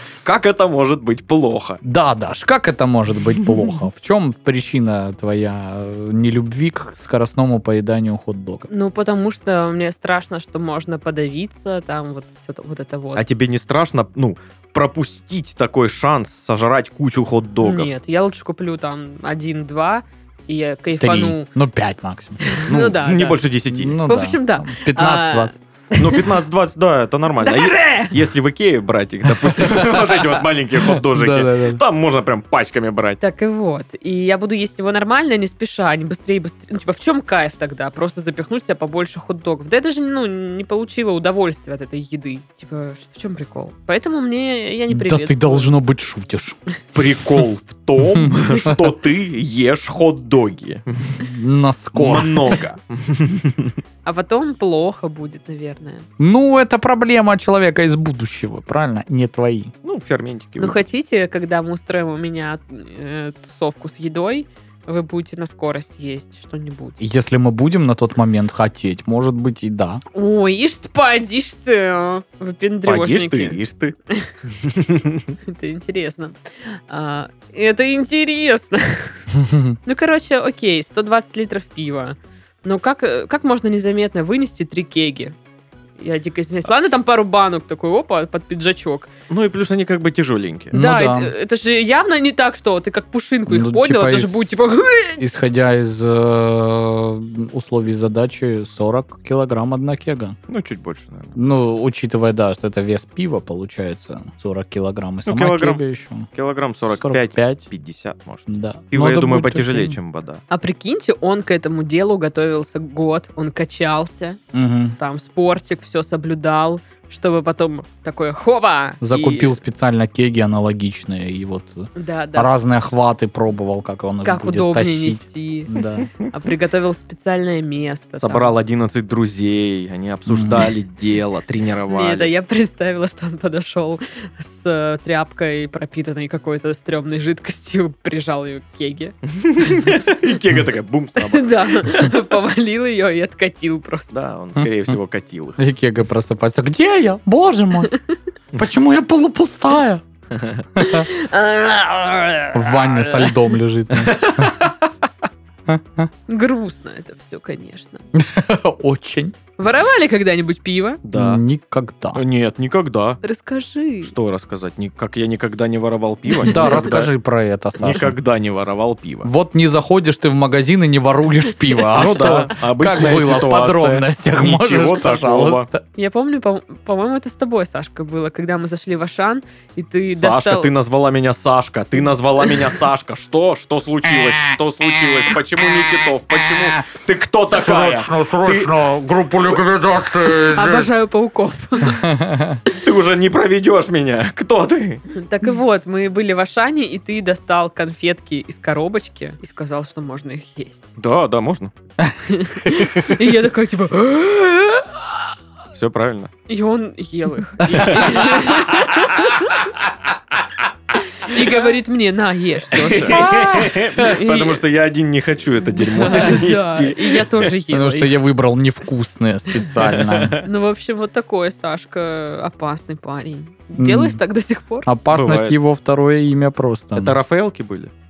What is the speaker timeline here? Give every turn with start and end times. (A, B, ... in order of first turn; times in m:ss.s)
0:00.2-0:01.8 A
0:01.8-0:08.7 B
0:08.7-0:13.2 C
0:13.2-0:17.9 A
0:17.6-0:21.5 C
0:21.0-0:22.4 B
0:22.4-0:23.4 C
0:22.7-0:24.0 A
0:23.7-0:25.5 B
0:24.0-0:26.3 C
0:26.0-0:33.2 A
0:27.4-0:28.1 C
0:29.4-0:31.8 B
0:33.2-0:45.7 C
0:44.9-0:46.6 B
0:46.9-0:51.2 A
0:48.1-0:48.9 B
0:51.2-0:52.6 B
0:52.0-0:53.8 A
0:54.0-0:56.1 C
0:56.2-0:59.7 B
0:59.8-1:00.9 A
1:00.6-1:07.0 C
1:07.0-1:10.0 B
1:10.1-1:13.6 C
1:12.8-1:13.9 A
1:14.5-1:15.3 A
1:15.5-1:19.2 C
1:19.4-1:19.8 B
1:19.8-1:25.4 C
1:26.0-1:29.1 C
1:29.3-1:30.7 A
1:30.7-1:31.3 B
1:30.7-1:35.2 C
1:33.5-1:40.4 B
1:40.5-1:41.4 A
1:41.4-1:46.3 B
1:45.3-1:50.4 A
1:47.0-1:47.6 B
1:48.5-1:50.0 B
1:50.5-1:54.4 C
1:54.5-1:55.0 B
1:55.0-1:59.6 C
1:59.0-2:06.1 B
2:02.0-2:02.5 C
2:04.2-2:05.7 C
2:06.3-2:08.5 C
2:08.2-2:12.4 A
2:10.3-2:10.7 B
2:11.9-2:20.0 C
2:19.3-2:22.1 A
2:21.2-2:24.1 C
2:24.1-2:25.6 A
2:25.6-2:27.9 B
2:27.9-2:28.2 C
2:28.6-2:30.0 B
2:30.3-2:30.6 A
2:30.8-2:31.1 B
2:30.8-2:33.5 C
2:32.5-2:34.9 B
2:35.7-2:36.1 B
2:36.3-2:38.1 C
2:38.2-2:39.4 B
2:39.6-2:41.0 C
2:41.0-2:41.4 A
2:41.1-2:42.2 B
2:42.2-2:43.2 A
2:43.2-2:44.1 C
2:44.0-2:47.1 A
2:46.3-2:46.7 C
2:46.4-2:48.1 B
2:47.8-2:49.3 A
2:49.2-2:55.8 B
2:51.9-2:55.7 A
2:56.0-3:00.7 C
3:00.1-3:08.7 A
3:04.1-3:06.8 B
3:07.5-3:10.9 B
3:10.4-3:12.1 C
3:11.8-3:12.6 B
3:12.7-3:15.0 A
3:15.1-3:20.9 C
3:21.0-3:21.7 A
3:22.3-3:24.9 C
3:25.7-3:26.3 A
3:26.5-3:29.7 C
3:27.7-3:29.2 A
3:31.2-3:33.3 C
3:32.7-3:37.5 A
3:33.1-3:33.9 B
3:34.0-3:34.6 C
3:35.6-3:38.2 C
3:37.7-3:40.4 B
3:39.8-3:40.5 A
3:40.4-3:44.9 C
3:43.8-3:44.2 B
3:44.8-3:47.2 B
3:45.1-3:45.6 A
3:47.0-3:47.9 A